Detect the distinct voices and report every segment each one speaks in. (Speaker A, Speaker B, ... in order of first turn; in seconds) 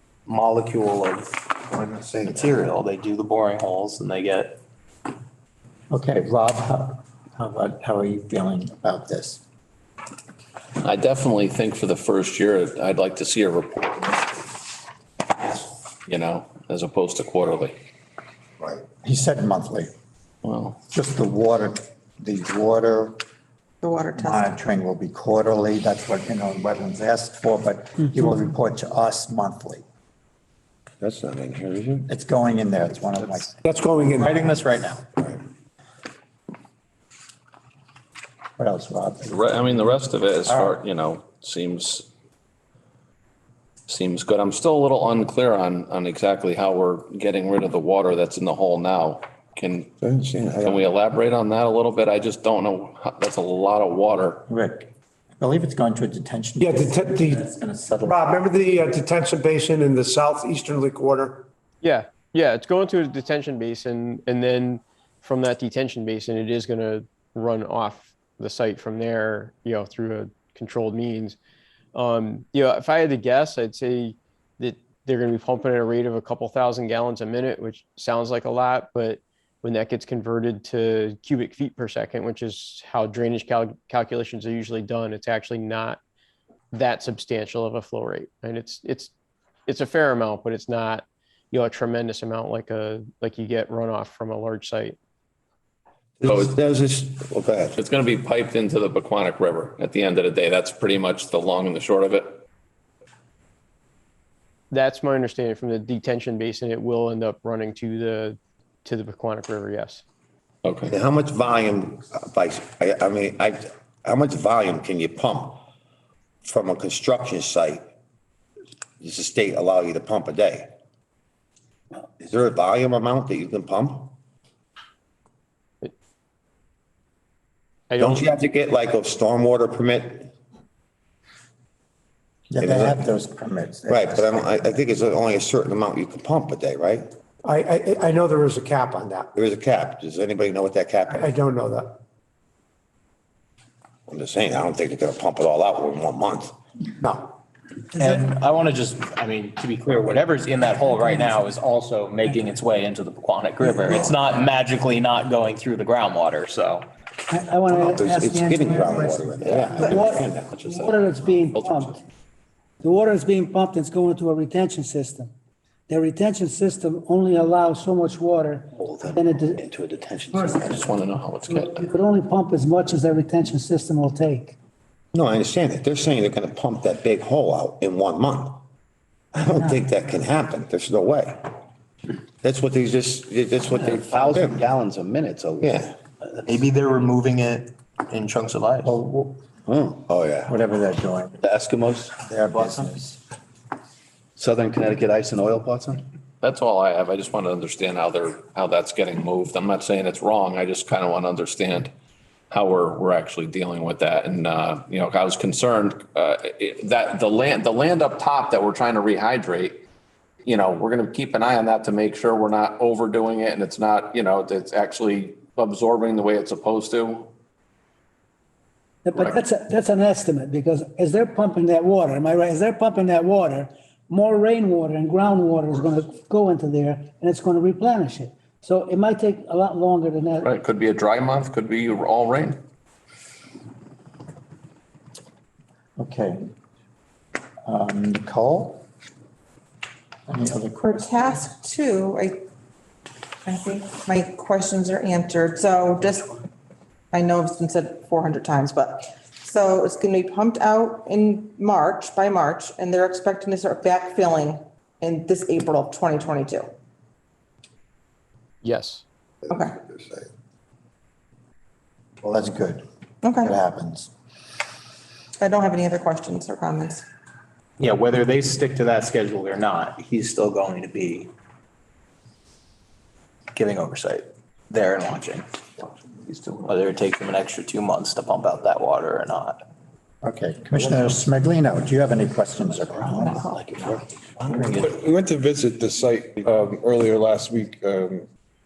Speaker A: 0.2-4.6, 147.9-156.9, 186.4-189.0, 267.8-271.3, 273.5-275.5, 276.2-279.6
Speaker B: 5.9-9.4, 18.9-19.9, 20.9-23.2, 24.2-29.8, 32.1-35.1, 38.6-39.9, 40.5-40.8, 54.5-58.6, 132.5-134.6, 188.8-189.4, 190.5-191.3, 192.2-193.2, 236.0-236.5, 237.6-238.8, 240.3-240.9, 262.2-262.8, 263.4-264.1, 280.2-283.5, 284.5-284.8
Speaker C: 10.8-14.4, 16.1-17.8, 20.4-20.8, 39.3-42.0, 43.9-49.9, 50.6-54.4, 97.7-102.4, 110.6-110.9, 159.8-161.9, 170.6-171.9, 196.4-201.9, 202.5-209.8, 210.4-217.3, 230.4-232.6
Speaker D: 23.8-24.3, 240.8-242.3, 243.4-246.3, 247.1-256.7, 263.2-263.5, 265.4-267.0
Speaker E: 31.0-32.1, 50.0-50.7, 96.2-97.7, 110.9-115.6, 116.4-117.8, 119.0-120.7, 122.2-124.1, 128.0-130.3, 132.6-133.0, 133.9-137.1, 139.3-141.1, 144.1-146.5, 157.8-160.4, 175.1-178.6, 179.3-181.4, 182.4-184.6, 185.6-185.9, 189.7-190.5
Speaker F: 33.6-34.4, 56.6-57.4, 58.0-61.5, 137.4-139.3, 141.1-142.0, 147.0-147.3
Speaker G: 61.8-71.4, 71.9-86.0, 86.7-89.1, 89.7-95.0, 104.7-110.0, 127.9-128.2, 258.6-259.0
Speaker H: 147.9-148.3, 157.3-162.0, 162.8-165.3, 165.9-169.6, 170.3-170.9, 171.5-174.5, 219.0-230.5
Speaker I: 168.8-170.7, 183.8-185.9, 191.4-192.9, 194.4-196.0, 283.3-283.8, 284.5-284.8
Speaker J: 284.8-288.2